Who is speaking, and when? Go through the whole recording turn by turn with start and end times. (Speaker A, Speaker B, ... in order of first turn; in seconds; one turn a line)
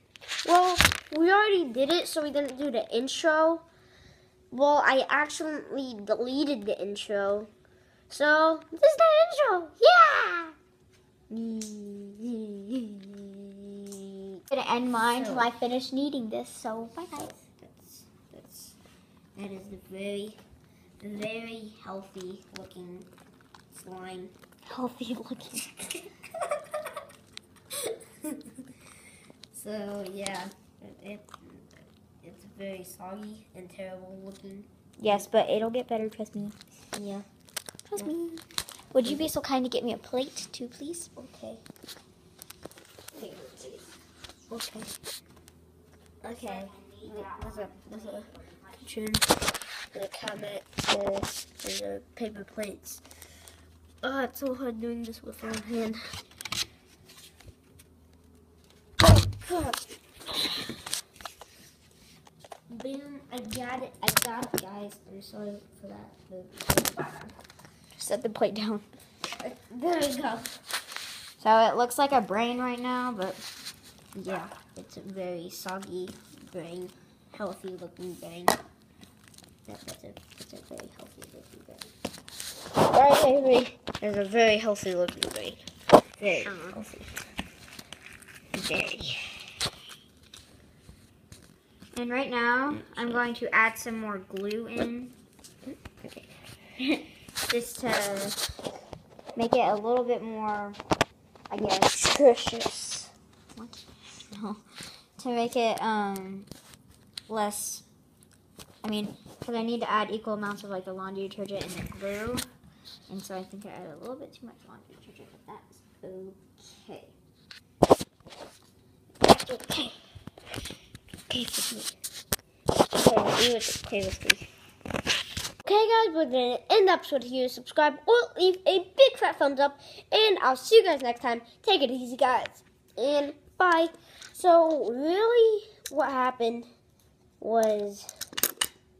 Speaker A: 0.5-3.6
Speaker A: 4.5-7.5
Speaker A: 8.1-10.5
Speaker A: 11.3-14.4
Speaker B: 14.5-17.3
Speaker A: 15.0-15.5
Speaker A: 17.1-18.8
Speaker A: 19.4-20.4
Speaker A: 21.0-23.1
Speaker A: 23.7-24.3
Speaker B: 24.7-25.7
Speaker A: 25.9-26.2
Speaker A: 27.8-28.7
Speaker A: 29.5-35.3
Speaker B: 35.0-36.6
Speaker A: 36.9-37.3
Speaker B: 37.9-41.1
Speaker A: 41.1-41.6
Speaker A: 43.1-43.9
Speaker B: 44.5-44.9
Speaker A: 46.2-49.4
Speaker B: 46.2-48.8
Speaker A: 49.9-53.0
Speaker A: 54.0-56.1
Speaker A: 59.0-59.8
Speaker A: 62.7-67.3
Speaker B: 68.0-68.9
Speaker A: 69.4-70.6
Speaker B: 71.4-73.4
Speaker A: 74.2-78.6
Speaker A: 79.7-81.9
Speaker A: 82.8-85.7
Speaker A: 86.2-87.1
Speaker B: 86.5-86.8
Speaker A: 88.5-89.4
Speaker B: 91.9-95.2
Speaker B: 97.5-98.4
Speaker B: 99.4-100.8
Speaker B: 101.5-102.0
Speaker A: 101.9-103.0
Speaker B: 103.6-104.6
Speaker B: 105.2-106.5
Speaker B: 107.3-107.8
Speaker B: 108.8-112.5
Speaker B: 113.1-117.0
Speaker A: 116.2-116.6
Speaker A: 119.2-119.9
Speaker A: 121.3-121.9
Speaker A: 122.9-124.5
Speaker A: 125.6-136.7
Speaker A: 137.4-138.1